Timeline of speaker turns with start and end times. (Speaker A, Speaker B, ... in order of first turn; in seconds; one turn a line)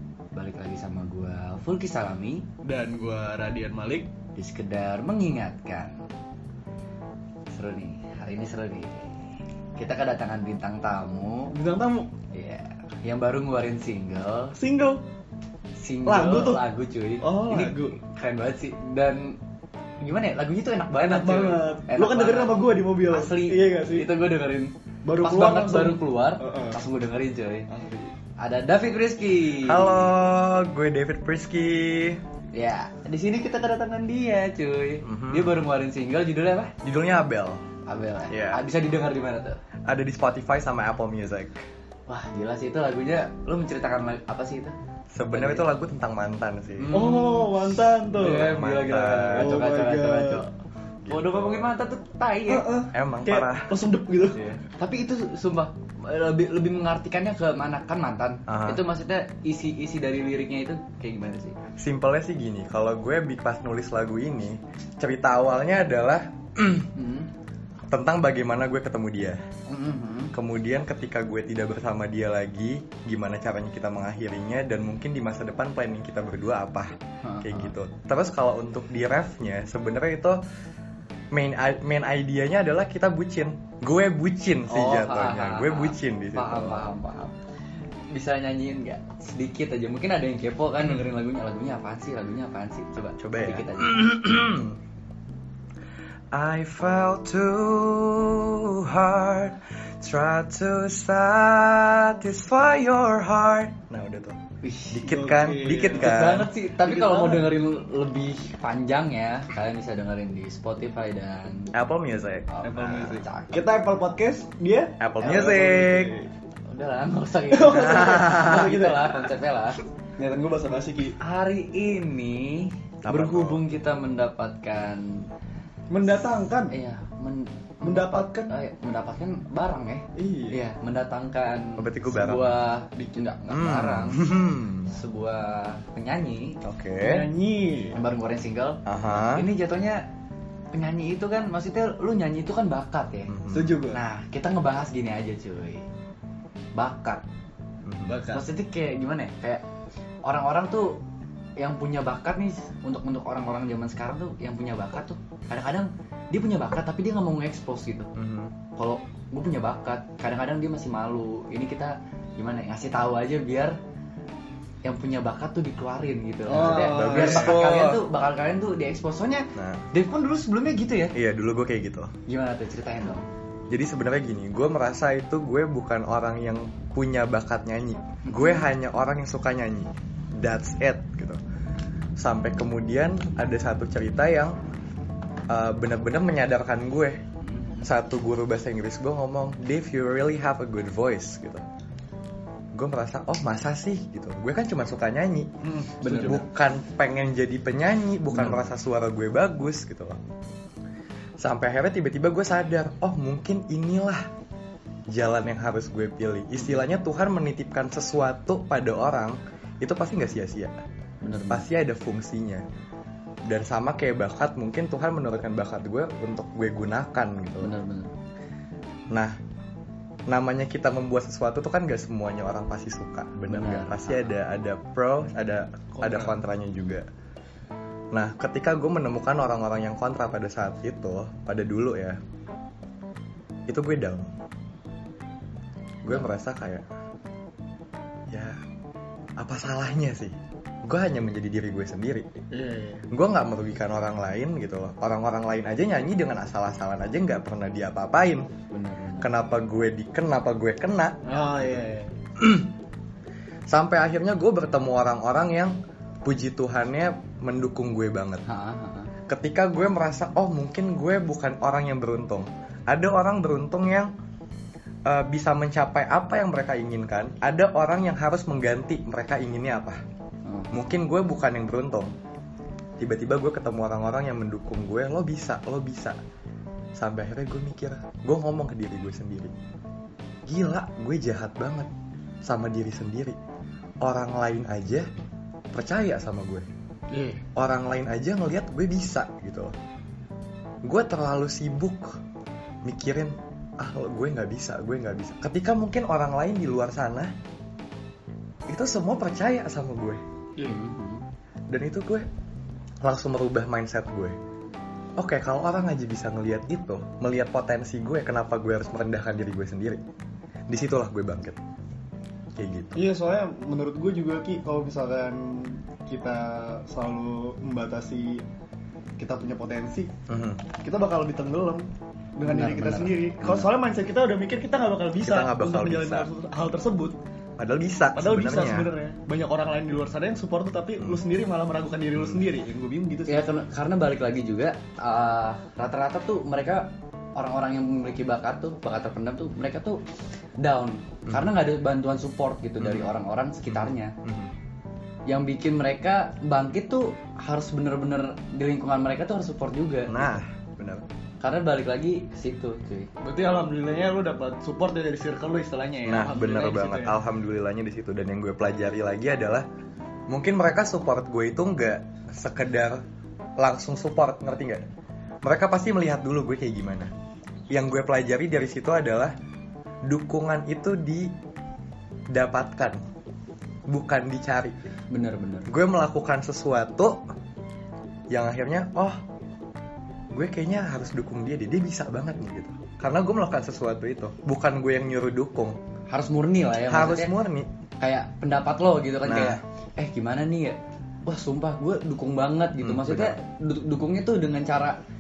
Speaker A: 0.3-2.5
Speaker B: 2.6-4.1
Speaker A: 4.4-6.0
Speaker A: 7.5-11.6
Speaker B: 11.5-12.1
Speaker A: 12.3-14.6
Speaker B: 14.6-15.0
Speaker A: 15.8-19.4
Speaker B: 16.1-16.6
Speaker B: 17.2-18.0
Speaker A: 20.0-27.7
Speaker B: 21.0-24.1
Speaker B: 25.0-26.8
Speaker B: 27.7-28.1
Speaker A: 28.4-30.1
Speaker C: 29.6-32.2
Speaker A: 32.5-36.7
Speaker C: 35.0-35.6
Speaker C: 36.8-37.6
Speaker A: 37.9-39.6
Speaker C: 38.3-38.6
Speaker C: 39.9-41.6
Speaker A: 42.1-44.8
Speaker C: 45.1-47.0
Speaker A: 45.3-45.7
Speaker A: 46.8-50.5
Speaker B: 46.9-48.5
Speaker C: 48.3-49.5
Speaker B: 49.4-50.5
Speaker C: 51.0-51.7
Speaker A: 51.1-52.7
Speaker B: 52.5-54.4
Speaker C: 52.9-53.7
Speaker A: 54.7-61.6
Speaker C: 58.5-58.8
Speaker C: 61.8-66.9
Speaker A: 66.9-67.3
Speaker C: 67.9-69.4
Speaker A: 69.7-70.3
Speaker C: 70.3-80.4
Speaker A: 77.2-77.7
Speaker C: 81.3-86.9
Speaker A: 84.7-87.3
Speaker A: 88.1-94.1
Speaker C: 93.2-94.8
Speaker C: 96.3-104.4
Speaker A: 104.6-105.1
Speaker C: 104.9-106.5
Speaker B: 105.0-106.1
Speaker A: 106.0-111.7
Speaker B: 106.8-107.5
Speaker C: 111.7-112.5
Speaker A: 112.5-113.6
Speaker B: 112.6-116.3
Speaker C: 115.0-116.1
Speaker A: 115.2-115.7
Speaker A: 116.7-119.8
Speaker B: 117.5-119.3
Speaker C: 117.7-118.5
Speaker B: 120.2-121.2
Speaker A: 121.2-125.3
Speaker C: 123.0-123.6
Speaker B: 125.9-126.7
Speaker A: 126.7-134.3
Speaker B: 127.8-128.5
Speaker B: 130.2-130.6
Speaker C: 131.8-132.5
Speaker B: 133.0-133.2
Speaker C: 133.5-134.9
Speaker A: 134.9-136.6
Speaker C: 136.6-137.3
Speaker B: 137.0-138.0
Speaker A: 137.9-140.1
Speaker C: 138.9-139.5
Speaker A: 140.7-143.3
Speaker C: 143.3-143.8
Speaker B: 143.5-144.0
Speaker A: 143.9-145.9
Speaker A: 146.8-147.2
Speaker C: 147.8-148.2
Speaker B: 148.1-148.4
Speaker A: 148.3-149.6
Speaker A: 150.2-151.0
Speaker A: 151.6-158.1
Speaker C: 158.2-158.6
Speaker A: 158.8-163.8
Speaker A: 164.8-171.2
Speaker B: 166.5-167.7
Speaker C: 166.5-168.1
Speaker C: 169.6-169.8
Speaker C: 171.1-172.1
Speaker A: 172.3-173.3
Speaker C: 173.7-181.4
Speaker A: 178.3-178.7
Speaker C: 182.2-184.6
Speaker C: 185.5-187.2
Speaker A: 187.4-187.9
Speaker C: 187.8-191.6
Speaker C: 192.7-195.5
Speaker B: 195.6-196.4
Speaker A: 196.0-196.5
Speaker C: 196.1-200.2
Speaker A: 198.3-198.7
Speaker C: 201.4-204.2
Speaker C: 205.1-210.7
Speaker A: 211.2-211.7
Speaker C: 211.5-212.6
Speaker C: 213.5-217.7
Speaker A: 217.6-218.1
Speaker C: 219.1-219.4
Speaker C: 220.3-227.1
Speaker A: 223.5-224.3
Speaker B: 225.9-226.4
Speaker C: 228.1-232.2
Speaker C: 233.7-234.3
Speaker C: 236.0-236.8
Speaker C: 238.3-238.6
Speaker C: 239.4-242.3
Speaker B: 242.5-243.1
Speaker C: 243.1-248.5
Speaker A: 248.7-249.3
Speaker C: 249.2-251.8
Speaker B: 251.2-252.2
Speaker C: 252.4-252.7
Speaker C: 253.7-258.4
Speaker A: 258.5-259.1
Speaker C: 259.3-264.1
Speaker C: 265.1-270.0
Speaker A: 270.5-270.7
Speaker C: 270.7-272.1
Speaker C: 273.0-276.2
Speaker C: 277.0-279.5
Speaker C: 280.5-281.9
Speaker C: 282.4-283.4
Speaker C: 284.0-285.1
Speaker C: 285.7-286.7
Speaker B: 287.1-287.4
Speaker C: 287.6-289.7
Speaker C: 290.8-292.2
Speaker C: 292.9-297.3
Speaker C: 298.7-300.2
Speaker A: 300.6-301.2
Speaker C: 301.7-302.3
Speaker C: 303.0-304.4
Speaker C: 305.2-310.0
Speaker C: 310.7-311.6
Speaker C: 312.6-313.0
Speaker B: 313.0-318.4
Speaker B: 319.2-320.1
Speaker C: 320.3-320.6
Speaker B: 320.8-327.2
Speaker A: 322.4-323.7
Speaker C: 325.2-326.3
Speaker C: 327.6-328.9
Speaker B: 328.1-333.4
Speaker C: 332.2-332.4
Speaker A: 333.3-340.0
Speaker A: 340.6-344.1
Speaker C: 342.8-343.1
Speaker C: 343.7-344.5
Speaker A: 345.3-350.4
Speaker C: 350.1-351.1
Speaker A: 351.4-353.1
Speaker B: 353.2-357.2
Speaker C: 356.1-359.7
Speaker C: 360.3-363.0
Speaker C: 363.6-364.8
Speaker C: 365.4-367.1
Speaker C: 367.7-369.3
Speaker C: 370.1-371.3
Speaker C: 372.3-373.0
Speaker C: 373.9-374.8
Speaker A: 375.1-375.7
Speaker C: 375.7-377.2
Speaker C: 378.3-379.2
Speaker C: 380.3-385.8
Speaker A: 386.1-387.3
Speaker C: 386.9-387.7
Speaker A: 388.0-395.0
Speaker C: 389.2-389.6
Speaker C: 392.8-393.4